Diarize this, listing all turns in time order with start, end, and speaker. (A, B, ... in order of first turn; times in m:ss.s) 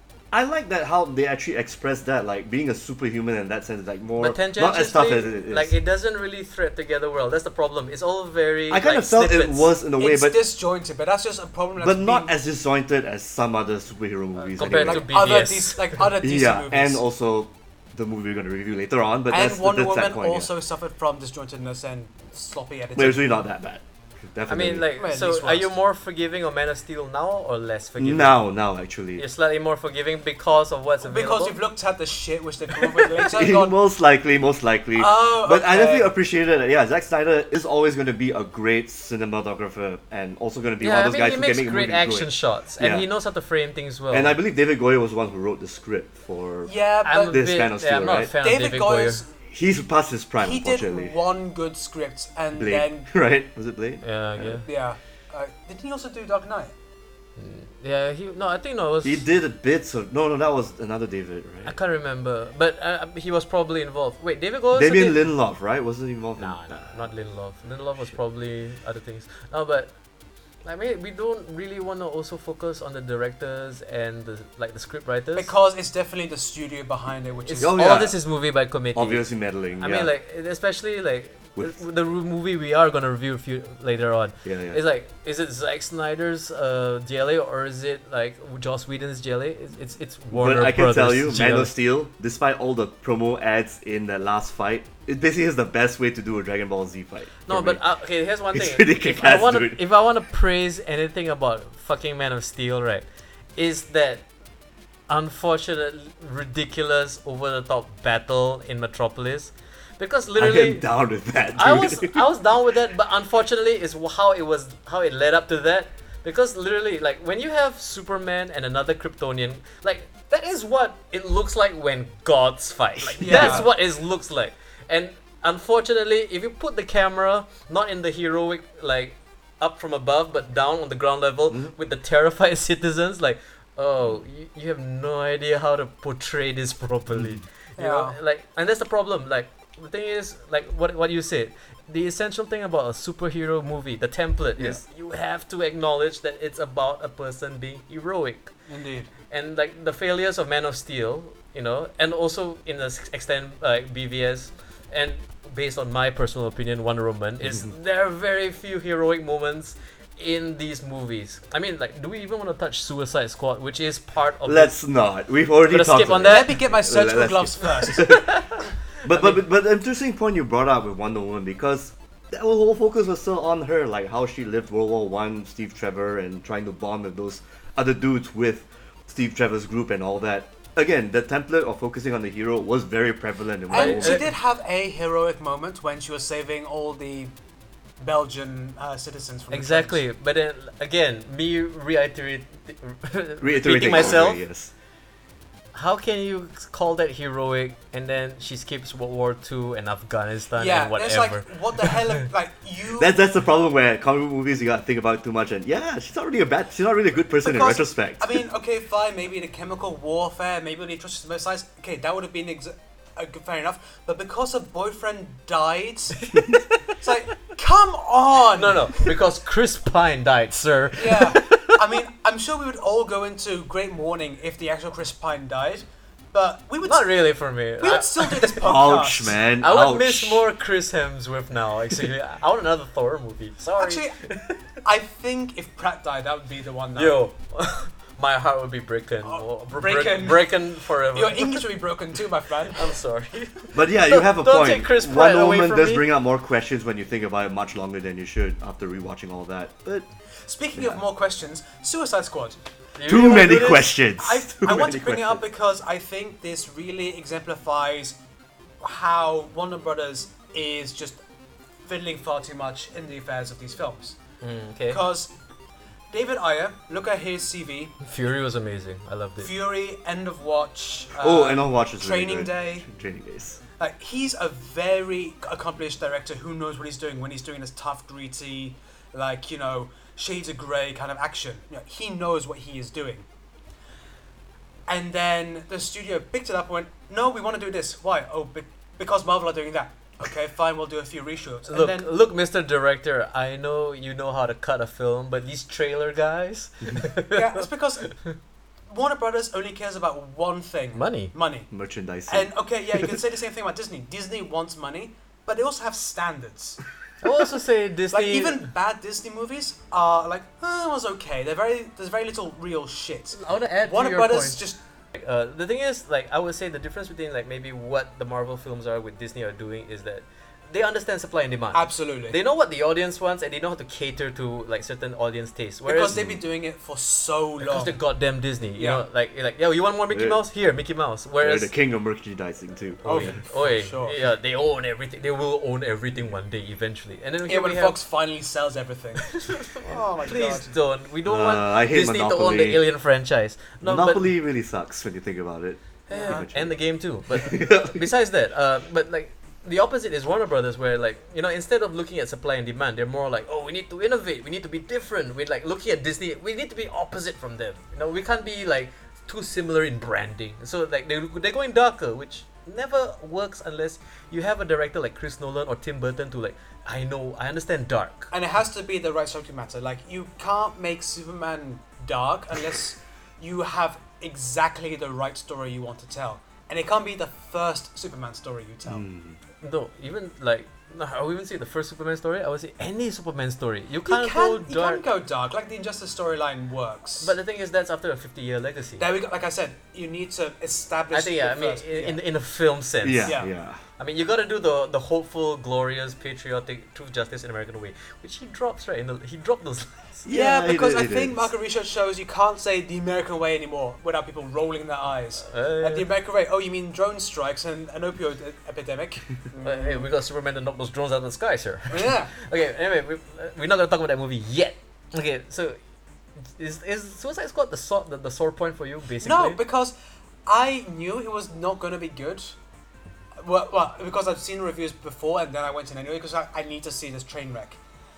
0:00.3-0:05.7 A
0:04.2-0:09.7 B
0:08.7-0:10.4 A
0:10.0-0:12.3 C
0:11.8-0:15.1 A
0:14.5-0:16.1 B
0:14.6-0:17.0 C
0:16.2-0:20.5 A
0:19.3-0:23.4 C
0:23.0-0:24.9 A
0:24.5-0:28.4 B
0:25.0-0:25.7 C
0:28.0-0:29.2 A
0:29.2-0:31.6 B
0:31.0-0:33.8 C
0:33.2-0:43.0 A
0:35.0-0:36.1 C
0:40.8-0:44.4 B
0:44.1-0:46.7 A
0:46.6-0:47.4 C
0:47.0-0:49.2 B
0:47.3-0:48.3 A
0:48.4-0:49.3 C
0:49.5-0:51.2 A
0:50.4-0:53.1 C
0:52.6-0:54.6 A
0:54.0-0:54.6 B
0:54.6-0:56.7 C
0:57.4-0:59.2 B
0:59.0-1:01.7 A
1:01.6-1:05.2 B
1:04.7-1:06.9 A
1:06.4-1:09.9 B
1:10.6-1:15.5 B
1:15.3-1:17.9 C
1:17.4-1:19.3 B
1:17.6-1:18.2 A
1:18.9-1:20.1 A
1:19.8-1:31.7 B
1:24.4-1:24.8 A
1:30.3-1:37.8 A
1:37.5-1:43.0 B
1:38.5-1:39.8 A
1:43.6-1:44.2 B
1:45.1-1:50.8 B
1:50.4-1:52.2 A
1:51.6-2:28.5 B
2:03.2-2:03.6 A
2:03.2-2:03.7 C
2:17.2-2:17.4 A
2:17.8-2:18.2 C
2:28.7-2:29.1 C
2:29.3-2:44.8 B
2:44.4-2:48.4 A
2:45.7-2:46.6 B
2:46.2-2:48.2 C
2:47.8-2:49.4 B
2:49.0-3:04.2 A
3:03.7-3:07.3 C
3:03.7-3:04.3 B
3:08.0-3:10.0 C
3:09.5-3:14.4 B
3:13.4-3:14.7 A
3:15.7-3:22.1 B
3:20.5-3:23.2 C
3:23.0-3:28.4 A
3:27.4-3:36.3 C
3:36.3-3:36.6 B
3:37.0-3:39.1 C
3:38.5-3:41.8 B
3:41.0-3:47.1 C
3:46.8-3:48.7 B
3:47.8-3:49.4 C
3:48.6-3:50.4 A
3:49.6-3:54.6 B
3:53.8-3:54.2 C
3:54.8-3:57.2 C
3:57.0-4:01.7 B
3:59.2-4:03.0 C
4:02.7-4:06.0 B
4:03.7-4:10.1 A
4:10.4-4:12.6 C
4:13.0-4:14.0 B
4:13.0-4:15.4 A
4:14.2-4:18.2 C
4:18.8-4:21.2 C
4:21.8-4:24.2 C
4:24.4-4:25.0 B
4:24.9-4:25.3 C
4:26.1-4:28.0 C
4:28.0-4:29.5 B
4:29.4-4:32.8 C
4:31.2-4:33.6 A
4:33.8-4:43.3 C
4:44.9-4:52.1 C
4:51.7-4:58.2 B
4:57.3-4:58.1 C
4:58.9-5:01.7 C
5:01.0-5:01.3 B
5:01.7-5:03.0 A
5:02.3-5:06.8 C
5:07.2-5:08.6 B
5:08.1-5:14.8 C
5:13.3-5:26.2 B
5:21.7-5:22.4 C
5:25.8-5:28.0 C
5:26.1-5:26.4 A
5:27.6-5:31.7 B
5:28.8-5:29.0 C
5:30.1-5:30.4 A
5:31.4-5:33.4 A
5:33.0-5:38.0 B
5:33.0-5:34.2 C
5:37.5-5:40.7 C
5:39.2-5:44.3 B
5:41.2-5:42.8 A
5:43.8-5:46.7 A
5:46.1-5:46.4 C
5:46.1-6:08.3 B
5:47.3-5:48.0 A
6:08.3-6:19.0 C
6:18.9-6:19.4 A
6:19.6-6:25.0 B
6:24.0-6:27.3 C
6:27.2-6:29.1 B
6:29.0-6:32.2 C
6:31.1-6:33.4 B
6:33.0-6:33.8 A
6:34.0-6:40.3 B
6:40.2-6:41.5 A
6:40.3-6:50.1 C
6:45.4-6:46.1 B
6:49.6-6:55.8 B
6:51.9-6:52.3 C
6:56.6-6:59.6 B
6:59.2-6:59.9 C
7:00.4-7:02.6 C
7:03.4-7:07.8 C